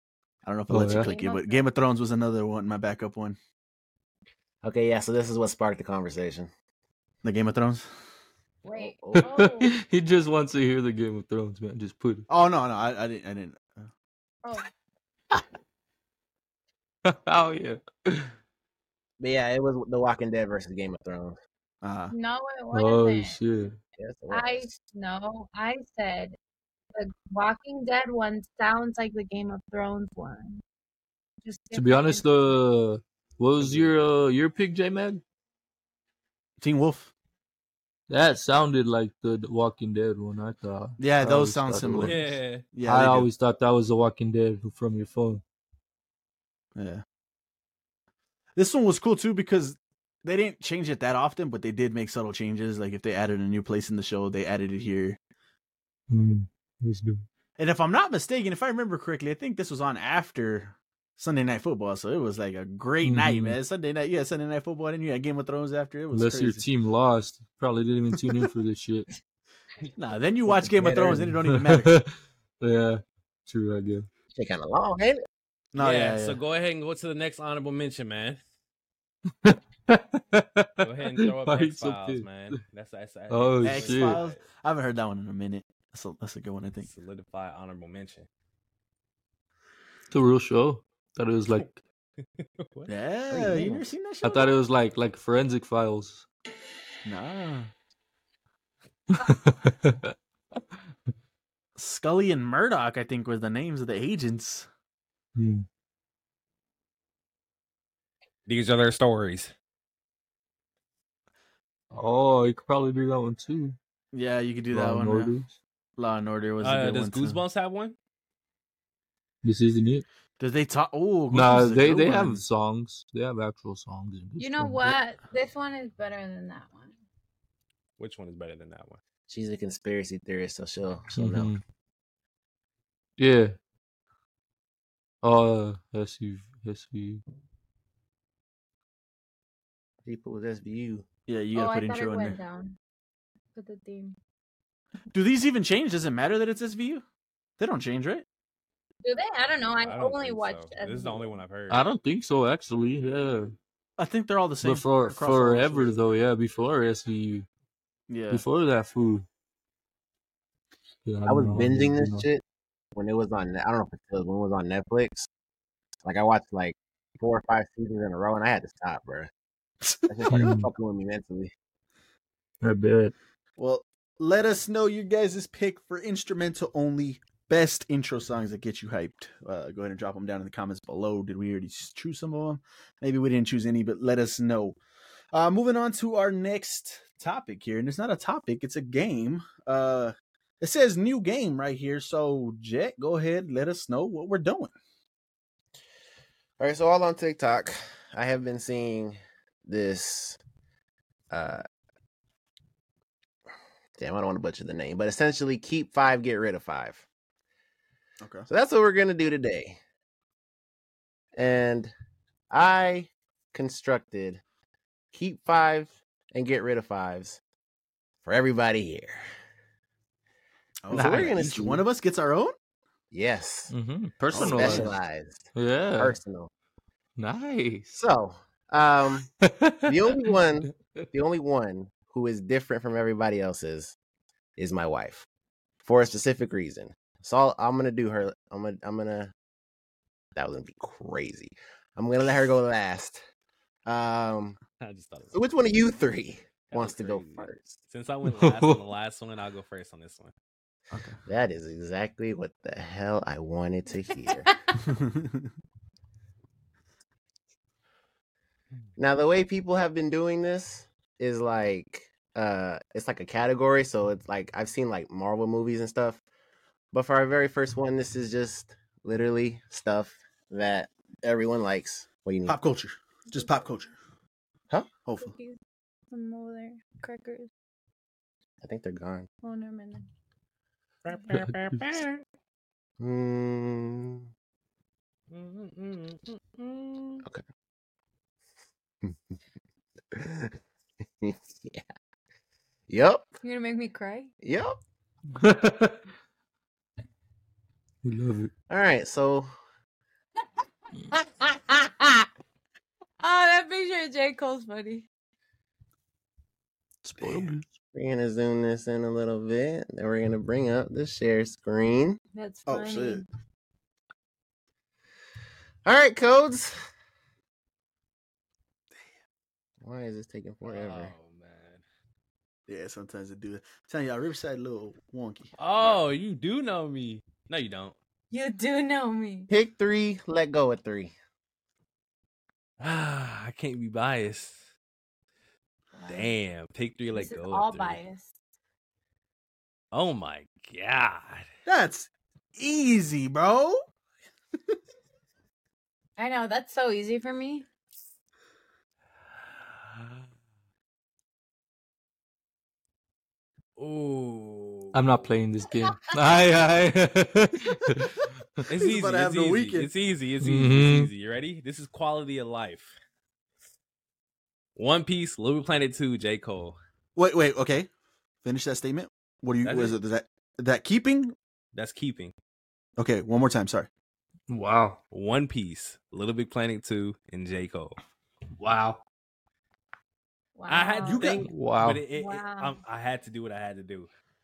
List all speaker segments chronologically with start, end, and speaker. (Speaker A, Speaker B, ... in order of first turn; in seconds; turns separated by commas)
Speaker A: 0.4-3.4, Speaker B: 0.7-1.1, Speaker C: 0.9-1.7, Speaker D: 4.6-6.5, Speaker A: 7.2-7.9, Speaker C: 8.6-9.8, Speaker D: 8.8-9.4, Speaker B: 9.3-12.3, Speaker A: 12.3-13.9, Speaker C: 14.4-14.7, Speaker B: 17.1-18.3, Speaker D: 19.2-21.4, Speaker A: 21.8-22.1, Speaker C: 22.1-23.4, Speaker B: 22.7-23.8, Speaker D: 24.0-24.7, Speaker C: 24.3-26.4, Speaker C: 26.9-30.6, Speaker C: 31.4-32.2, Speaker B: 31.7-35.2, Speaker A: 36.6-37.1, Speaker B: 38.1-42.3, Speaker A: 41.0-42.2, Speaker E: 41.9-42.6, Speaker A: 42.7-43.3, Speaker B: 42.8-45.4, Speaker A: 46.8-47.0, Speaker A: 48.6-55.2, Speaker B: 56.1-57.2, Speaker A: 57.6-66.7, Speaker B: 63.0-63.6, Speaker B: 66.1-69.1, Speaker A: 70.0-72.0, Speaker D: 70.5-71.3, Speaker B: 71.4-74.1, Speaker D: 74.3-75.2, Speaker A: 75.7-76.4, Speaker E: 75.8-78.4, Speaker B: 79.4-82.6, Speaker E: 80.8-84.4, Speaker B: 83.3-84.2, Speaker A: 83.6-86.9, Speaker E: 86.8-88.3, Speaker B: 90.1-91.8, Speaker E: 92.4-92.9, Speaker A: 92.9-94.6, Speaker D: 93.3-93.8, Speaker B: 94.2-96.3, Speaker A: 97.0-97.7, Speaker B: 99.1-100.1, Speaker A: 101.8-104.7, Speaker B: 105.4-105.7, Speaker E: 108.5-109.5, Speaker B: 111.9-113.8, Speaker A: 114.1-115.3, Speaker B: 114.7-115.5, Speaker A: 116.0-117.4, Speaker E: 116.6-118.0, Speaker B: 119.4-120.0, Speaker A: 120.4-122.4, Speaker B: 121.3-125.0, Speaker C: 124.4-126.9, Speaker E: 128.0-129.0, Speaker D: 129.3-131.5, Speaker B: 131.1-131.6, Speaker B: 133.2-133.6, Speaker B: 135.2-137.2, Speaker D: 140.1-141.1, Speaker A: 141.3-142.4, Speaker C: 141.6-142.8, Speaker C: 143.5-144.2, Speaker A: 145.1-147.1, Speaker A: 147.6-148.2, Speaker C: 149.0-151.4, Speaker E: 149.8-151.8, Speaker B: 151.7-153.6, Speaker A: 154.0-156.0, Speaker B: 154.6-157.5, Speaker A: 158.1-158.4, Speaker B: 158.3-159.2, Speaker B: 161.1-162.2, Speaker D: 161.3-162.4, Speaker D: 162.9-165.3, Speaker D: 166.1-169.3, Speaker A: 169.8-170.6, Speaker D: 170.1-171.5, Speaker B: 170.3-170.7, Speaker B: 172.6-173.1, Speaker A: 173.6-184.8, Speaker A: 185.3-194.7, Speaker D: 196.6-200.4, Speaker D: 201.3-201.6, Speaker D: 204.0-207.0, Speaker A: 208.2-208.5, Speaker D: 208.5-209.8, Speaker D: 211.4-211.9, Speaker D: 212.5-214.4, Speaker D: 215.1-217.4, Speaker D: 218.2-219.2, Speaker A: 220.8-222.6, Speaker D: 220.9-221.8, Speaker B: 220.9-221.4, Speaker D: 223.1-223.7, Speaker B: 223.7-225.0, Speaker D: 224.3-225.5, Speaker A: 224.3-225.0, Speaker B: 225.5-226.2, Speaker D: 226.0-226.5, Speaker B: 227.2-228.0, Speaker D: 227.9-229.3, Speaker B: 229.4-230.4, Speaker D: 229.8-234.0, Speaker D: 234.6-235.3, Speaker D: 235.8-239.3, Speaker D: 240.3-243.2, Speaker D: 243.9-244.6, Speaker E: 244.8-245.4, Speaker D: 245.3-247.8, Speaker E: 246.7-250.3, Speaker B: 248.3-248.8, Speaker A: 250.9-251.2, Speaker D: 251.3-254.5, Speaker A: 254.8-255.5, Speaker D: 259.0-266.2, Speaker D: 266.9-272.6, Speaker A: 272.5-273.9, Speaker C: 273.3-273.6, Speaker A: 275.1-275.3, Speaker C: 275.2-275.6, Speaker C: 276.1-277.5, Speaker D: 278.6-279.3, Speaker C: 279.4-280.1, Speaker E: 281.1-282.2, Speaker D: 283.0-284.3, Speaker E: 285.3-287.2, Speaker D: 290.1-290.5, Speaker D: 291.2-291.9, Speaker D: 292.9-293.2, Speaker C: 293.4-294.3, Speaker D: 294.4-294.8, Speaker B: 295.4-296.0, Speaker B: 298.0-298.5, Speaker D: 298.7-299.5, Speaker D: 301.5-302.1, Speaker C: 303.2-305.1, Speaker B: 307.0-307.6, Speaker A: 307.2-307.5, Speaker D: 307.2-312.2, Speaker C: 312.3-313.3, Speaker A: 312.7-313.2, Speaker D: 315.9-316.7, Speaker D: 319.8-321.1, Speaker E: 320.6-321.8, Speaker A: 322.7-326.0, Speaker E: 325.6-328.0, Speaker C: 328.3-329.5, Speaker D: 329.5-331.1, Speaker E: 332.8-334.6, Speaker C: 335.9-336.3, Speaker E: 336.1-338.0, Speaker C: 337.1-338.3, Speaker E: 339.9-341.5, Speaker A: 341.7-343.8, Speaker C: 346.2-347.7, Speaker E: 349.8-350.2, Speaker E: 353.8-355.0, Speaker B: 354.9-358.6, Speaker E: 358.7-362.9, Speaker A: 358.7-359.9, Speaker B: 360.4-361.1, Speaker E: 364.8-366.8, Speaker A: 367.2-367.9, Speaker A: 368.4-371.4, Speaker E: 369.6-370.0, Speaker E: 371.7-372.4, Speaker A: 373.0-373.9, Speaker B: 374.5-375.0, Speaker E: 375.1-377.9, Speaker B: 378.6-379.0, Speaker C: 380.6-381.4, Speaker E: 380.7-384.1, Speaker A: 381.0-381.5, Speaker B: 381.4-382.1, Speaker C: 382.1-382.8